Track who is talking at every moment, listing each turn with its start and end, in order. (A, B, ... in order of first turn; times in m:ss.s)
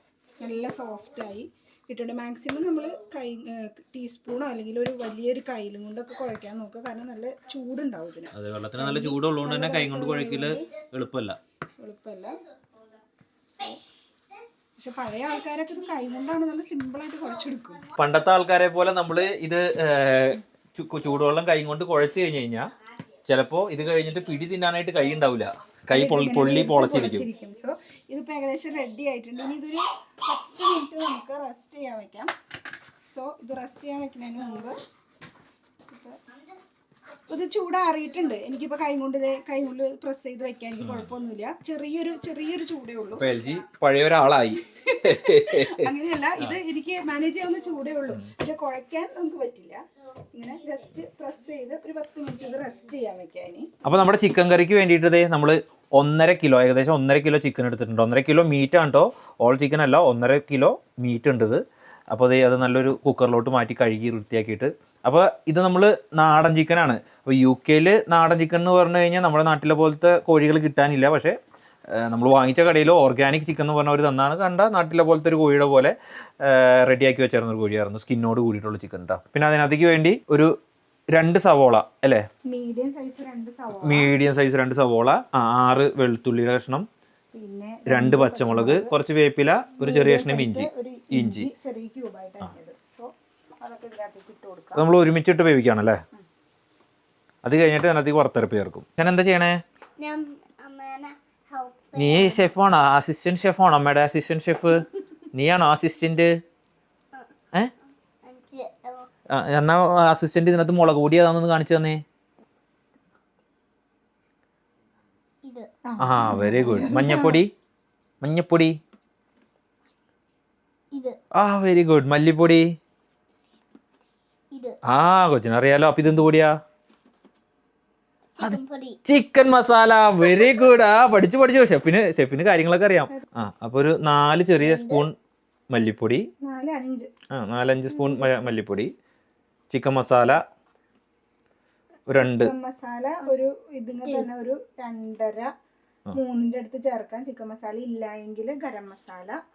0:00.4-0:10.7 A
0:08.3-0:11.4 B
0:11.8-0:12.4 A
0:14.8-0:17.8 A
0:18.0-0:22.7 B
0:23.2-0:27.2 B
0:25.9-0:32.3 A
0:33.0-0:34.8 A
0:35.9-0:36.2 A
0:37.3-0:43.3 A
0:40.8-0:41.1 B
0:43.2-0:46.6 B
0:44.7-0:53.7 A
0:53.8-1:11.4 B
1:11.9-1:20.6 B
1:21.1-1:22.3 B
1:22.4-1:24.1 A
1:23.8-1:26.9 B
1:27.3-1:28.9 A
1:27.9-1:31.5 B
1:29.8-1:34.8 A
1:34.7-1:36.0 B
1:37.4-1:39.6 B
1:40.0-1:42.5 C
1:42.0-1:46.3 B
1:48.2-1:49.1 C
1:49.3-1:52.0 B
1:55.4-1:55.7 C
1:55.9-1:57.4 A
1:56.0-1:57.5 B
1:58.2-1:58.8 B
2:00.9-2:01.2 C
2:01.3-2:02.7 B
2:04.5-2:04.8 C
2:04.8-2:06.6 B
2:08.4-2:09.0 C
2:08.4-2:15.1 B
2:14.6-2:15.0 C
2:15.7-2:16.3 B
2:16.4-2:17.1 A
2:17.3-2:18.9 B
2:19.7-2:20.4 B
2:22.1-2:22.5 B
2:22.2-2:25.5 A
2:26.1-2:29.4 A